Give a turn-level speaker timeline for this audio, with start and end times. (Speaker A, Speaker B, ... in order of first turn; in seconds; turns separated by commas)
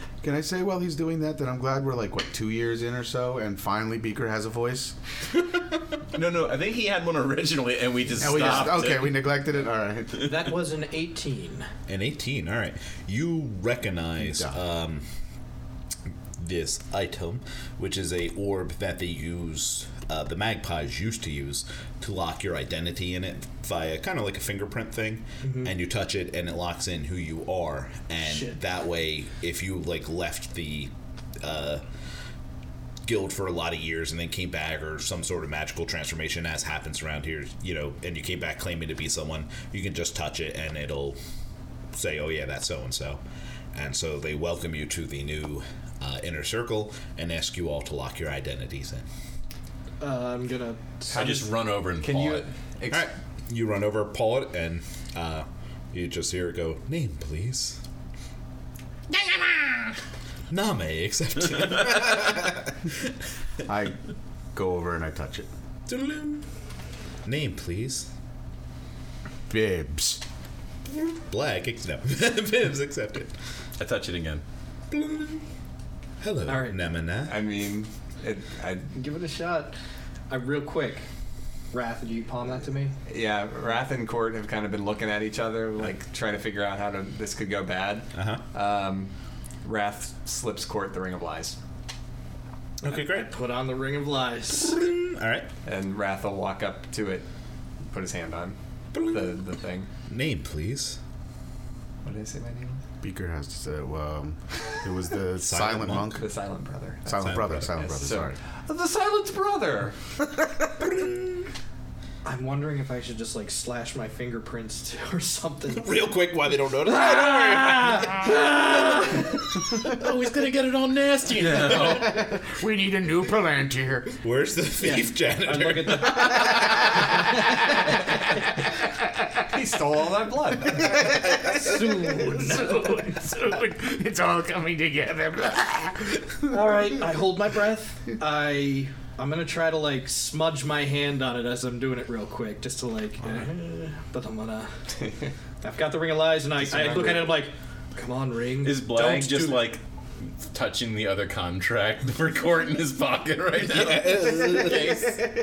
Speaker A: 0.2-5.0, Speaker B: 6.1-9.2, Speaker A: 8.2-10.3, Speaker C: 10.2-11.7, Speaker D: 11.9-15.1, Speaker A: 14.2-14.6, Speaker D: 16.4-31.8, Speaker D: 33.0-41.2, Speaker D: 41.9-43.2, Speaker D: 43.7-49.1, Speaker C: 50.0-51.5, Speaker B: 51.1-52.5, Speaker E: 51.2-53.1, Speaker D: 52.9-57.8, Speaker D: 59.2-59.5, Speaker D: 60.5-62.8, Speaker A: 63.6-64.0, Speaker A: 64.5-65.5, Speaker D: 65.9-66.4, Speaker D: 67.2-68.1, Speaker A: 69.5-70.2, Speaker D: 70.9-73.3, Speaker B: 73.8-74.4, Speaker D: 74.9-75.4, Speaker D: 76.2-77.4, Speaker C: 76.5-76.8, Speaker E: 77.3-78.9, Speaker C: 78.9-79.7, Speaker C: 80.3-81.0, Speaker C: 81.7-82.9, Speaker E: 83.1-89.1, Speaker D: 88.1-88.4, Speaker E: 89.6-91.6, Speaker D: 92.8-93.3, Speaker C: 92.9-94.8, Speaker D: 94.6-95.5, Speaker E: 95.7-97.3, Speaker E: 97.9-99.9, Speaker D: 98.9-99.4, Speaker D: 100.1-101.0, Speaker E: 102.0-102.8, Speaker A: 103.0-106.2, Speaker D: 105.4-106.1, Speaker E: 106.1-110.0, Speaker A: 107.1-108.4, Speaker D: 107.1-108.1, Speaker C: 112.2-116.0, Speaker D: 115.7-120.0, Speaker C: 116.9-119.1, Speaker B: 119.8-122.2, Speaker A: 121.5-124.2, Speaker D: 124.2-127.4, Speaker C: 124.8-127.6, Speaker E: 129.4-130.9, Speaker A: 130.7-136.5, Speaker D: 131.3-131.6, Speaker C: 131.4-133.2, Speaker C: 136.5-144.8, Speaker C: 145.6-149.6, Speaker B: 148.6-155.2, Speaker D: 153.7-155.1